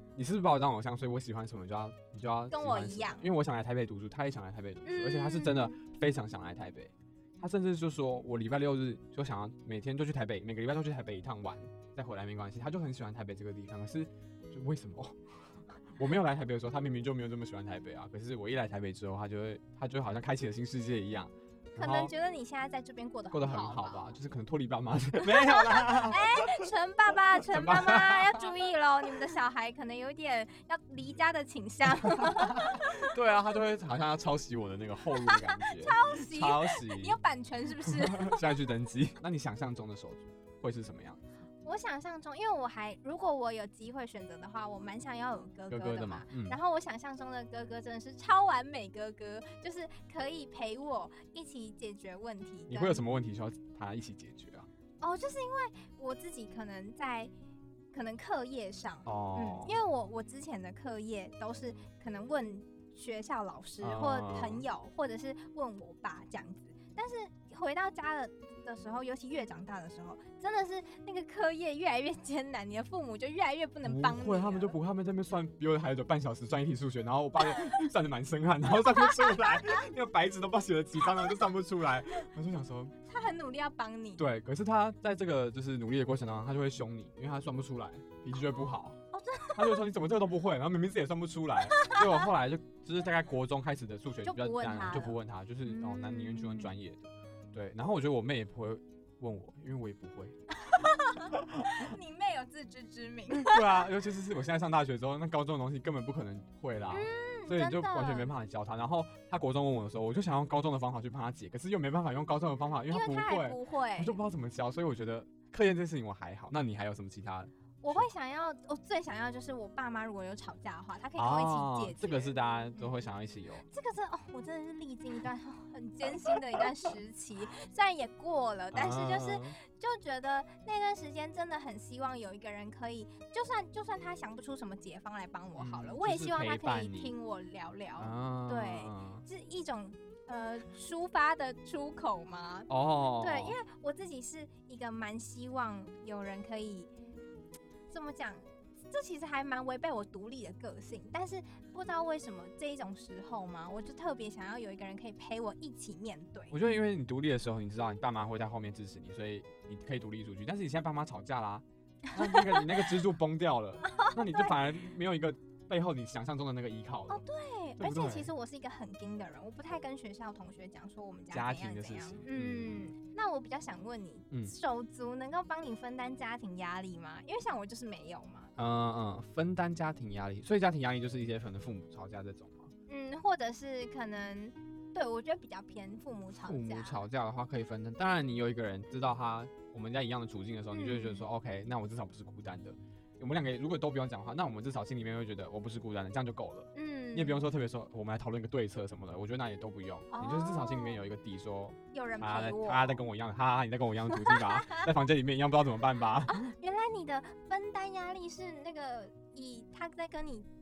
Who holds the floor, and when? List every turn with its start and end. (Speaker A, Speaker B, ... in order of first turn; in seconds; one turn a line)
Speaker A: 0.1-15.2
Speaker B: 2.5-3.3
Speaker B: 4.8-5.8
Speaker A: 15.9-22.1
Speaker B: 21.8-24.1
Speaker A: 23.3-26.5
Speaker B: 25.2-33.1
Speaker A: 27.5-28.5
Speaker A: 32.1-37.2
Speaker B: 35.3-38.5
Speaker A: 37.8-41.2
Speaker B: 41.6-53.0
Speaker A: 45.7-46.6
Speaker A: 52.7-54.7
Speaker B: 55.0-57.3
Speaker B: 57.9-74.8
Speaker A: 59.0-59.8
Speaker A: 63.8-64.6
Speaker A: 73.8-83.0
Speaker B: 79.0-79.8
Speaker B: 83.1-84.2
Speaker A: 84.2-89.0
Speaker B: 89.1-89.8
Speaker A: 89.5-100.4
Speaker B: 91.7-92.3
Speaker B: 94.2-96.7
Speaker B: 100.6-103.8
Speaker A: 101.3-101.9
Speaker A: 103.3-118.1
Speaker B: 106.9-108.3
Speaker B: 112.9-114.2
Speaker B: 117.8-123.0
Speaker A: 121.2-123.7
Speaker B: 123.7-146.9
Speaker A: 128.7-129.6
Speaker A: 135.6-137.1
Speaker A: 138.0-139.2
Speaker A: 142.7-143.6
Speaker B: 147.9-156.6
Speaker A: 156.5-167.2
Speaker B: 162.1-162.9
Speaker B: 163.9-164.6
Speaker B: 167.1-178.5
Speaker A: 167.8-168.3
Speaker A: 171.3-172.9
Speaker A: 178.6-182.7
Speaker B: 182.9-187.0
Speaker A: 186.3-206.4
Speaker B: 190.7-191.3
Speaker B: 196.8-197.5
Speaker B: 200.1-201.0
Speaker B: 201.9-203.0
Speaker B: 204.1-204.9
Speaker B: 206.3-210.5